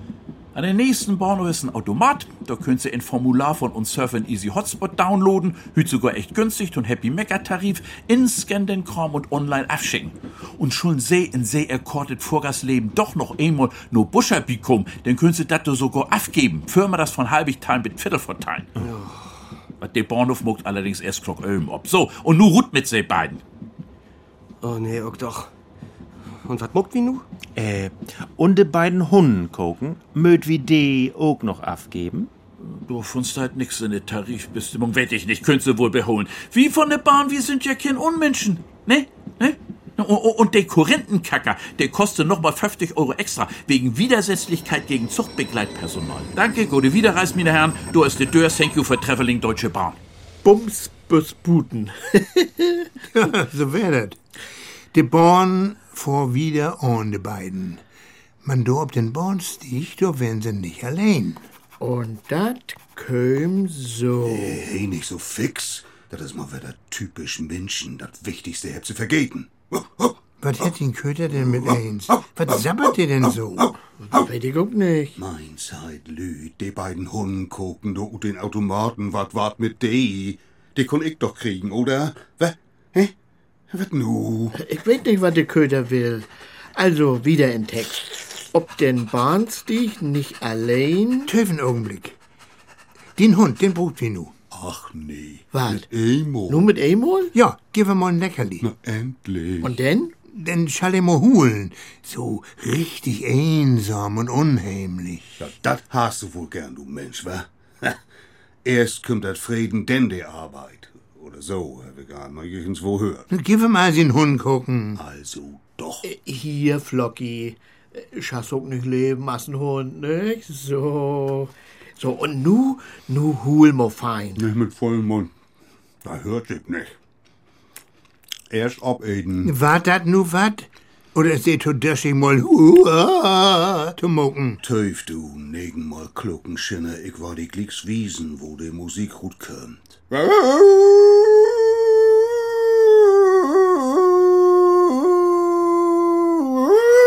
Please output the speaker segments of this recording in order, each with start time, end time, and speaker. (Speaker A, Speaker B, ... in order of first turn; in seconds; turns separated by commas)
Speaker A: 0.5-18.7, Speaker B: 18.8-19.1, Speaker A: 19.8-23.4, Speaker B: 24.6-25.5, Speaker B: 26.4-27.2, Speaker C: 27.6-32.3, Speaker A: 32.6-50.0, Speaker D: 50.4-52.9, Speaker E: 53.1-54.2, Speaker E: 54.9-57.8, Speaker E: 58.4-61.4, Speaker D: 61.8-64.6, Speaker F: 64.2-70.2, Speaker E: 70.4-73.7, Speaker D: 74.0-75.2, Speaker F: 75.2-83.1, Speaker F: 83.7-84.6, Speaker D: 84.5-91.3, Speaker E: 91.3-92.2, Speaker E: 93.2-94.3, Speaker F: 94.5-96.7, Speaker D: 95.5-95.9, Speaker D: 96.5-97.3, Speaker E: 97.3-98.7, Speaker F: 98.6-99.7, Speaker D: 99.6-100.1, Speaker E: 100.3-105.4, Speaker F: 105.4-108.0, Speaker F: 108.7-113.3, Speaker E: 113.3-115.0, Speaker F: 115.0-116.1, Speaker D: 116.0-124.4, Speaker F: 124.4-125.3, Speaker F: 126.0-126.9, Speaker F: 128.5-129.5, Speaker E: 129.4-134.6, Speaker F: 134.6-140.4